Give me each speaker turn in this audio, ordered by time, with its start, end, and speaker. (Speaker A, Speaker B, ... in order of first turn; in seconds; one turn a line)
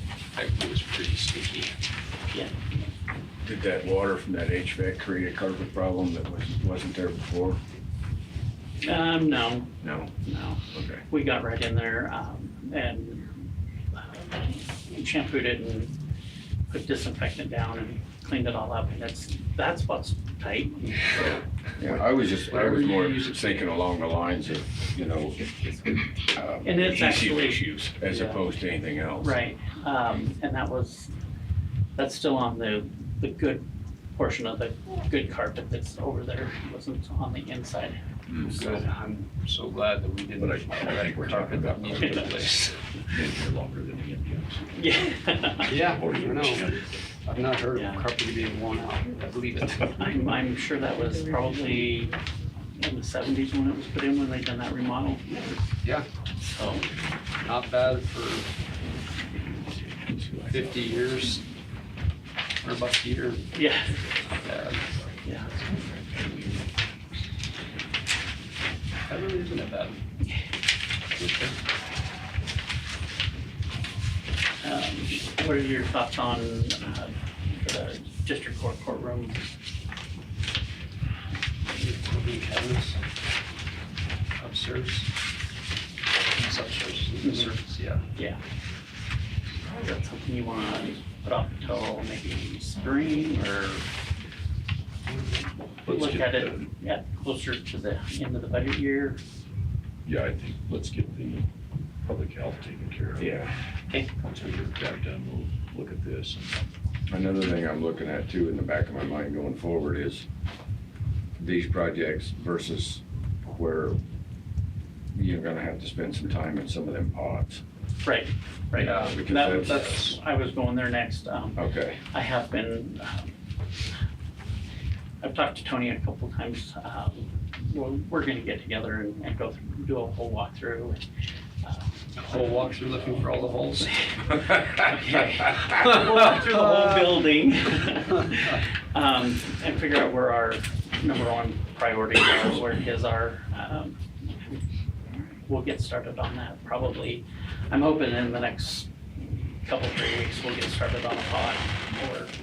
Speaker A: 0.3-1.8
Speaker B: 2.3-2.6
Speaker C: 3.4-7.6
Speaker B: 8.8-15.9
Speaker C: 9.8-10.1
Speaker C: 10.7-11.0
Speaker B: 16.7-21.4
Speaker C: 21.8-29.4
Speaker A: 22.4-23.5
Speaker B: 26.6-27.6
Speaker B: 29.2-31.1
Speaker B: 32.0-38.0
Speaker C: 38.3-38.5
Speaker A: 38.4-42.7
Speaker D: 40.4-44.8
Speaker B: 44.7-45.7
Speaker D: 45.7-47.0
Speaker A: 45.7-50.1
Speaker B: 47.7-48.0
Speaker B: 50.0-52.1
Speaker B: 52.8-55.4
Speaker B: 56.4-56.9
Speaker A: 57.4-58.5
Speaker D: 59.3-61.5
Speaker A: 60.5-61.4
Speaker A: 62.6-63.5
Speaker B: 63.5-64.0
Speaker D: 64.0-65.0
Speaker A: 64.4-64.8
Speaker B: 65.2-65.5
Speaker D: 65.6-66.6
Speaker A: 69.1-70.0
Speaker D: 71.2-71.5
Speaker B: 74.6-79.5
Speaker A: 81.7-83.0
Speaker A: 84.4-85.1
Speaker A: 86.3-88.1
Speaker B: 87.2-87.5
Speaker B: 88.1-88.4
Speaker B: 89.7-93.9
Speaker B: 95.8-99.2
Speaker D: 95.8-96.7
Speaker D: 100.0-101.5
Speaker D: 102.0-103.4
Speaker C: 103.2-103.5
Speaker D: 104.2-106.6
Speaker C: 107.1-110.3
Speaker C: 111.4-114.0
Speaker C: 115.1-117.6
Speaker B: 118.0-123.3
Speaker A: 118.8-120.2
Speaker C: 118.8-119.9
Speaker C: 121.5-122.0
Speaker B: 125.2-131.0
Speaker B: 131.6-131.9
Speaker A: 132.2-133.9
Speaker B: 134.7-144.6
Speaker A: 136.7-137.0
Speaker B: 145.4-152.3